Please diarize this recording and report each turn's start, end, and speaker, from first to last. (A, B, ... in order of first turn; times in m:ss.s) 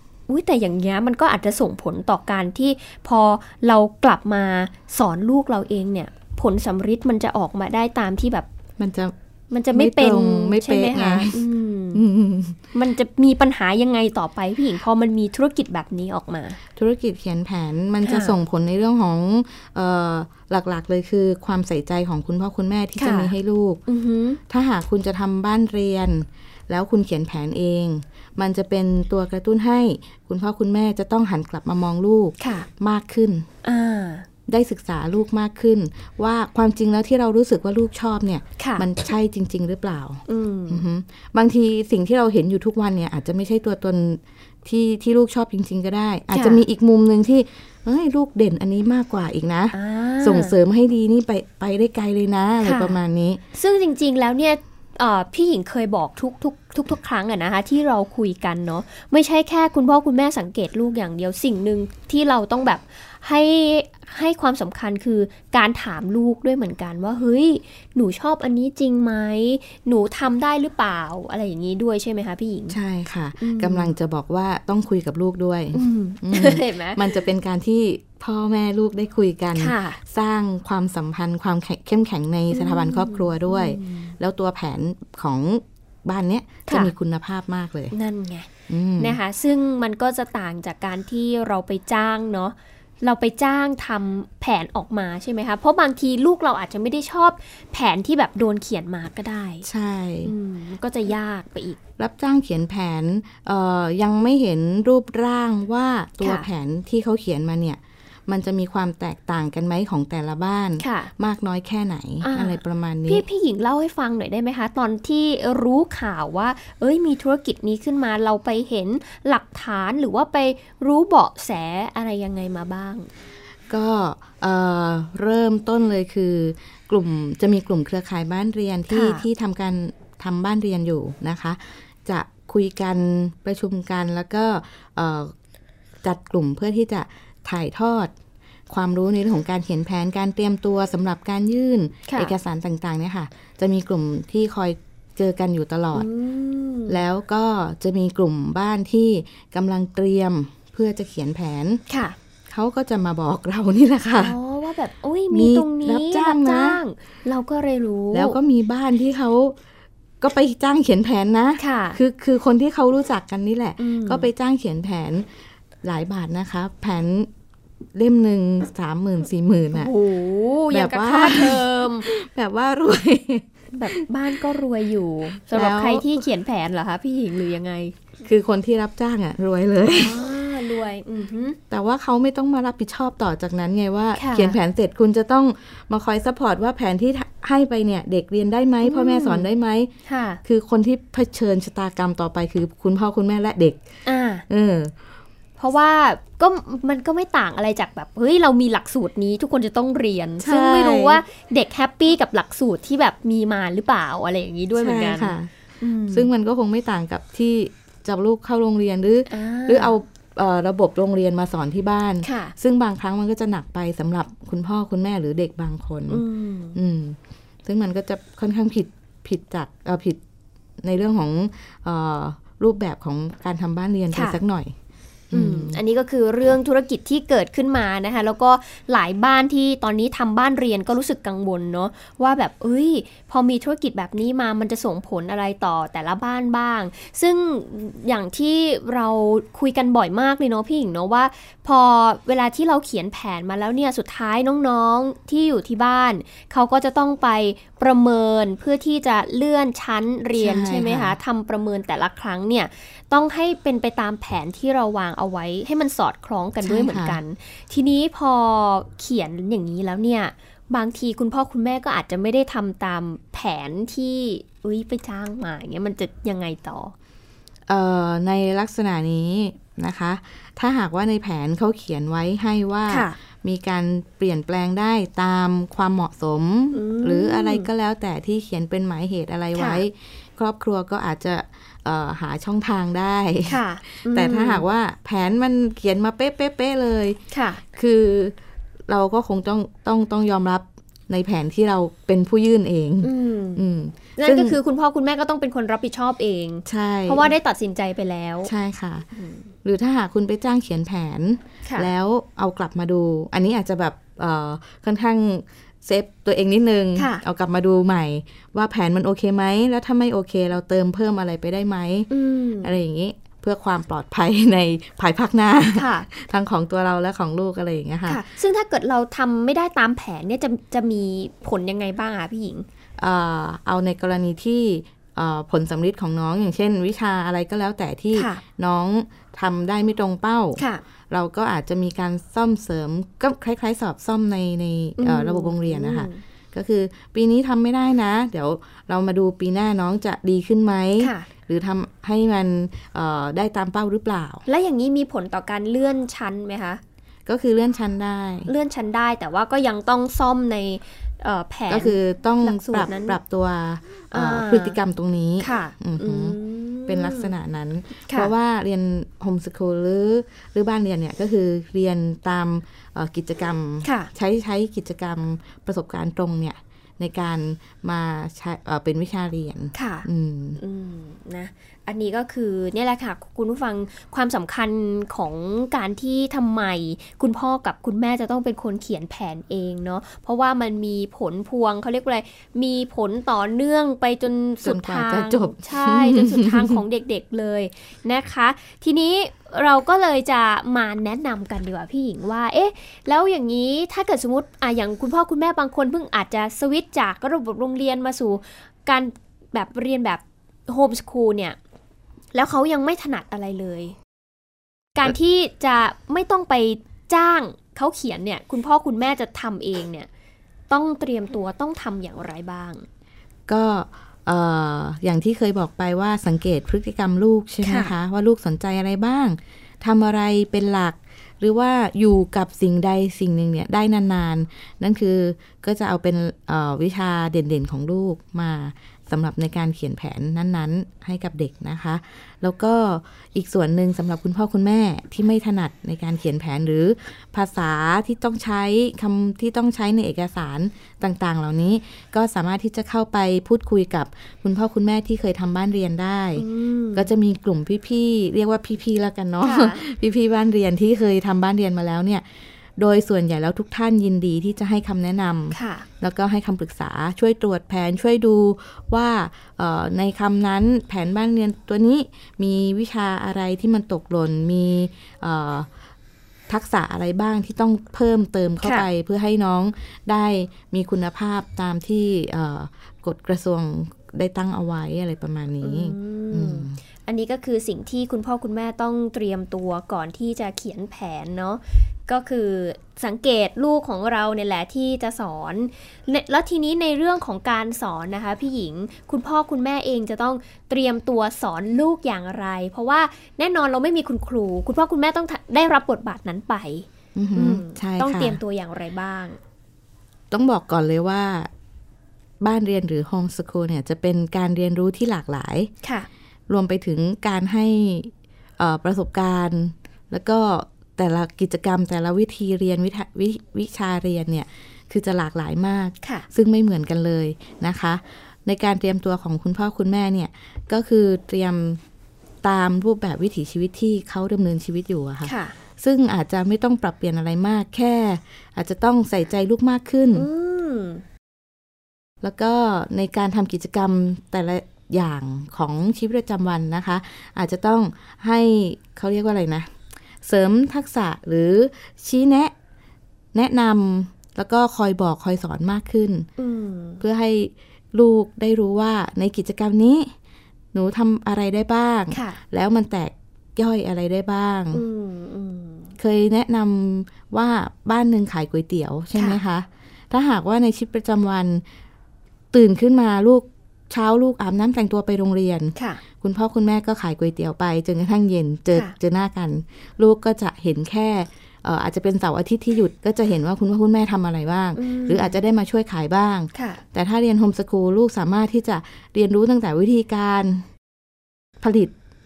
0:00.3-0:08.5 A
0:08.8-0:09.2 B
0:09.5-0:12.0 A
0:09.7-0:12.6 B
0:12.7-0:16.6 A
0:16.8-0:23.8 B
0:18.0-0:18.4 A
0:23.0-0:23.3 A
0:23.9-0:24.4 A
0:24.5-0:33.5 B
0:32.4-0:32.7 A
0:33.6-0:34.3 A
0:34.5-0:53.4 B
0:38.6-0:38.8 A
0:40.3-0:40.8 A
0:46.3-0:46.6 A
0:49.7-0:50.6 A
0:52.6-0:53.0 A
0:53.6-1:12.8 A
1:12.7-1:27.9 B
1:13.4-1:13.9 A
1:15.7-1:17.2 A
1:19.6-1:20.0 A
1:22.5-1:24.1 A
1:26.7-1:26.9 A
1:27.9-1:28.5 A
1:28.7-1:29.2 B
1:29.0-1:39.6 A
1:39.6-1:40.3 B
1:40.2-1:41.8 A
1:42.0-1:53.2 B
1:46.2-1:46.5 A
1:50.8-1:51.1 A
1:52.2-2:03.1 A
2:03.7-2:15.3 B
2:08.9-2:09.2 A
2:16.0-2:18.1 B
2:18.7-2:26.1 B
2:22.1-2:22.3 A
2:25.9-2:27.0 A
2:26.9-2:31.8 B
2:31.9-2:32.2 A
2:32.5-2:34.4 B
2:34.2-2:38.4 A
2:35.3-2:36.8 B
2:38.1-2:39.6 B
2:40.2-2:45.3 B
2:41.6-2:42.0 A
2:43.8-2:44.3 A
2:45.8-2:47.3 B
2:47.9-2:49.9 B
2:49.7-2:52.1 A
2:50.7-2:54.0 B
2:53.7-2:58.0 A
2:55.5-2:56.2 B
2:58.2-3:00.2 B
2:59.9-3:01.6 A
3:01.7-3:09.9 B
3:04.2-3:04.6 A
3:08.8-3:09.5 A
3:10.1-3:10.4 A
3:10.4-3:13.8 B
3:14.0-3:14.4 A
3:14.5-3:14.9 B
3:15.6-3:26.3 A
3:20.4-3:21.2 B
3:24.8-3:25.5 B
3:26.1-3:40.2 B
3:29.3-3:30.0 A
3:32.2-3:32.5 A
3:36.1-3:36.8 A
3:40.8-3:44.7 B
3:44.1-3:44.4 A
3:45.3-3:45.8 B
3:45.3-4:26.9 A
4:10.4-4:11.2 B
4:16.6-4:17.2 B
4:27.7-4:47.2 B
4:32.9-4:33.2 A
4:36.7-4:37.7 A
4:39.6-4:39.8 A
4:43.5-4:44.6 A
4:47.3-4:47.6 A
4:47.7-4:48.4 B
4:48.9-4:54.6 B
4:53.0-4:53.6 A
4:54.2-4:58.5 A
4:56.7-4:57.3 B
4:58.4-4:59.1 B
4:59.2-4:59.5 A
4:59.6-5:12.1 B
5:07.0-5:07.2 A
5:12.1-5:12.7 A
5:12.6-5:18.2 B
5:15.8-5:16.1 A
5:18.1-5:22.7 A
5:23.0-5:44.4 B
5:28.2-5:28.4 A
5:30.6-5:30.8 A
5:35.0-5:36.2 A
5:41.0-5:41.3 A
5:44.5-5:46.8 A
5:47.3-5:48.5 B
5:48.5-5:53.2 A
5:51.7-6:10.6 B
5:54.1-5:54.8 A
5:55.4-5:57.3 A
6:03.8-6:04.1 A
6:09.7-6:10.1 A
6:10.6-6:41.6 A
6:24.6-6:26.8 B
6:42.3-6:44.0 A
6:45.0-6:50.1 A
6:50.7-6:52.8 A
6:53.5-7:32.2 B
6:57.6-6:57.9 A
7:26.4-7:27.1 A
7:29.4-7:29.8 A
7:32.8-7:45.7 B
7:35.5-7:35.9 A
7:46.5-7:56.8 B
7:55.6-8:19.4 A
8:17.2-8:18.4 B
8:20.3-8:21.5 B
8:22.4-8:25.7 B
8:25.8-8:26.1 A
8:26.5-8:41.8 B
8:42.4-8:50.3 B
8:45.2-8:45.6 A
8:50.2-8:51.0 A
8:52.2-8:59.7 B
9:00.2-9:02.5 B
9:03.3-9:06.3 B
9:06.4-9:07.0 A
9:07.0-9:10.2 B
9:10.7-9:14.8 B
9:12.1-9:12.4 A
9:14.7-9:15.9 A
9:16.0-9:21.6 B
9:22.5-9:40.7 B
9:25.8-9:26.0 A
9:34.8-9:35.4 A
9:36.5-9:36.8 A
9:41.6-9:41.9 B